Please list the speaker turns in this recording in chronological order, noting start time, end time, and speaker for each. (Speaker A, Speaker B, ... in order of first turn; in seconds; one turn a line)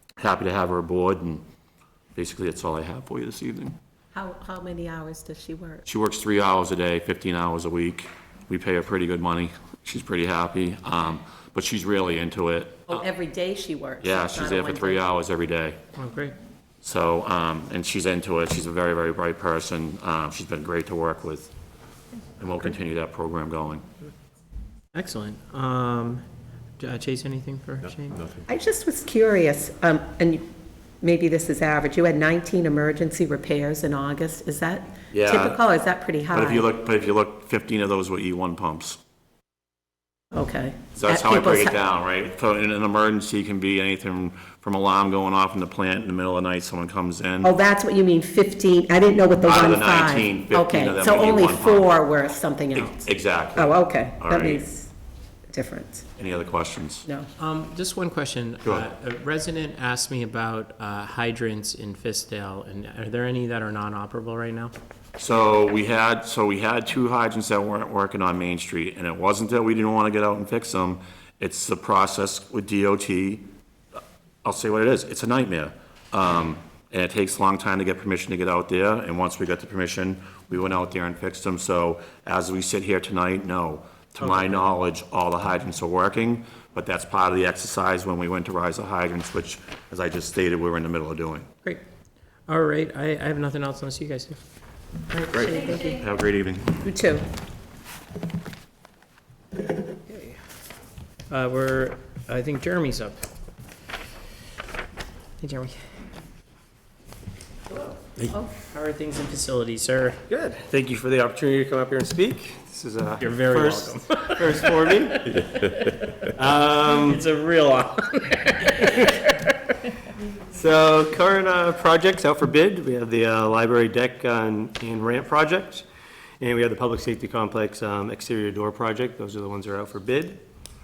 Speaker A: 0.2-1.4
Speaker A: 2.1-3.8
Speaker B: 4.1-5.8
Speaker A: 5.9-13.0
Speaker B: 12.9-15.0
Speaker A: 14.0-15.8
Speaker C: 16.0-16.4
Speaker A: 16.8-21.5
Speaker A: 22.4-23.8
Speaker C: 24.9-26.2
Speaker C: 26.8-28.3
Speaker B: 28.5-30.5
Speaker B: 31.0-36.7
Speaker A: 35.1-35.6
Speaker A: 36.3-39.0
Speaker B: 40.3-41.7
Speaker A: 41.0-47.5
Speaker B: 47.4-54.9
Speaker A: 49.4-51.9
Speaker A: 52.7-54.6
Speaker B: 55.5-56.0
Speaker A: 56.2-57.1
Speaker C: 57.4-64.7
Speaker A: 65.2-73.5
Speaker A: 74.4-91.5
Speaker C: 92.5-94.4
Speaker A: 95.2-96.8
Speaker B: 95.6-96.0
Speaker B: 96.8-97.2
Speaker C: 100.1-100.4
Speaker C: 101.3-103.2
Speaker C: 105.4-105.8
Speaker C: 108.7-110.2
Speaker D: 110.3-115.4
Speaker C: 113.2-116.0
Speaker D: 116.3-117.2
Speaker C: 116.9-119.5
Speaker D: 120.5-125.8
Speaker D: 126.4-130.4